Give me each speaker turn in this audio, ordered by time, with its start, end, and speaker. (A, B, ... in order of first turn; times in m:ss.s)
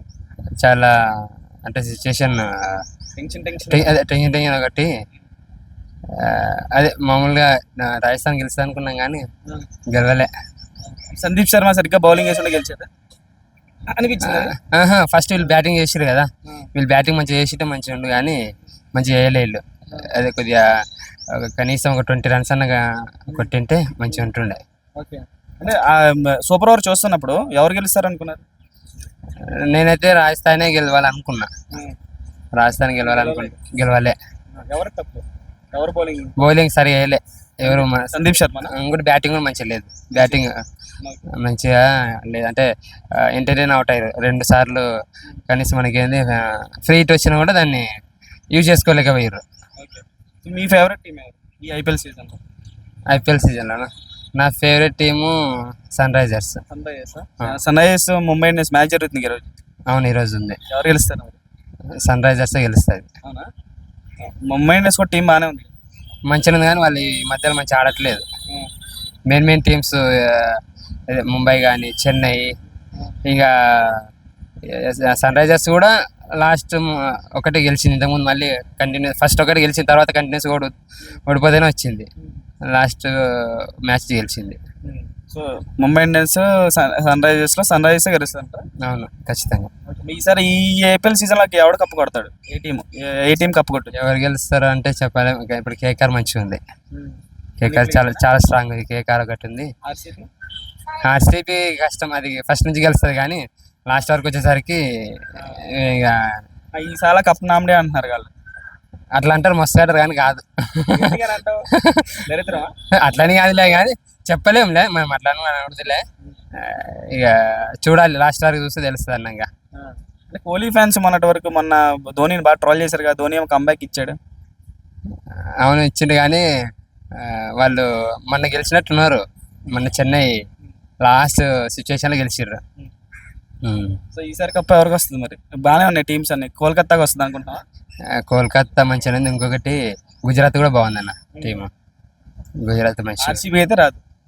0:00.6-0:02.8 A
0:03.2-0:04.0 B
0:03.7-0:04.9 A
0:06.1-0:09.2 A
0:09.9-0:10.3 A
0:10.9-0:12.9 B
0:13.9-0:14.5 B
0:14.2-0:18.4 A
0:18.9-0:20.7 A
0:21.3-0:24.6 A
0:25.0-0:28.4 B
0:29.5-0:31.5 A
0:32.5-0:34.2 A
0:33.0-0:33.6 B
0:34.6-0:36.4 B
0:36.4-0:40.6 A
0:37.6-0:38.7 B
0:40.1-0:40.4 B
0:41.3-0:44.8 A
0:45.5-0:47.9 A
0:48.5-0:49.4 A
0:49.8-0:52.4 B
0:53.1-0:55.4 A
0:55.9-0:56.6 A
0:56.7-0:59.5 B
0:59.9-1:00.6 A
1:00.7-1:01.4 B
1:02.0-1:03.1 A
1:04.2-1:05.7 B
1:06.3-1:08.2 A
1:09.3-1:12.6 A
1:13.2-1:14.1 A
1:14.6-1:20.7 A
1:21.3-1:22.1 A
1:22.7-1:24.6 A
1:24.8-1:28.7 B
1:28.8-1:29.7 A
1:29.9-1:33.9 B
1:34.0-1:36.6 A
1:36.9-1:38.2 B
1:37.6-1:39.7 A
1:39.8-1:40.3 B
1:41.0-1:46.4 A
1:45.4-1:45.6 B
1:46.7-1:48.3 B
1:49.2-1:51.2 A
1:50.9-1:51.7 B
1:51.7-1:52.2 A
1:52.2-1:52.7 B
1:53.0-1:59.5 A
1:59.8-2:04.2 B
2:05.6-2:06.4 A
2:07.1-2:10.3 A
2:11.0-2:12.6 A
2:13.6-2:14.0 A
2:14.1-2:17.6 B
2:18.2-2:21.7 A
2:21.3-2:21.6 B
2:22.6-2:23.4 A
2:23.2-2:24.0 B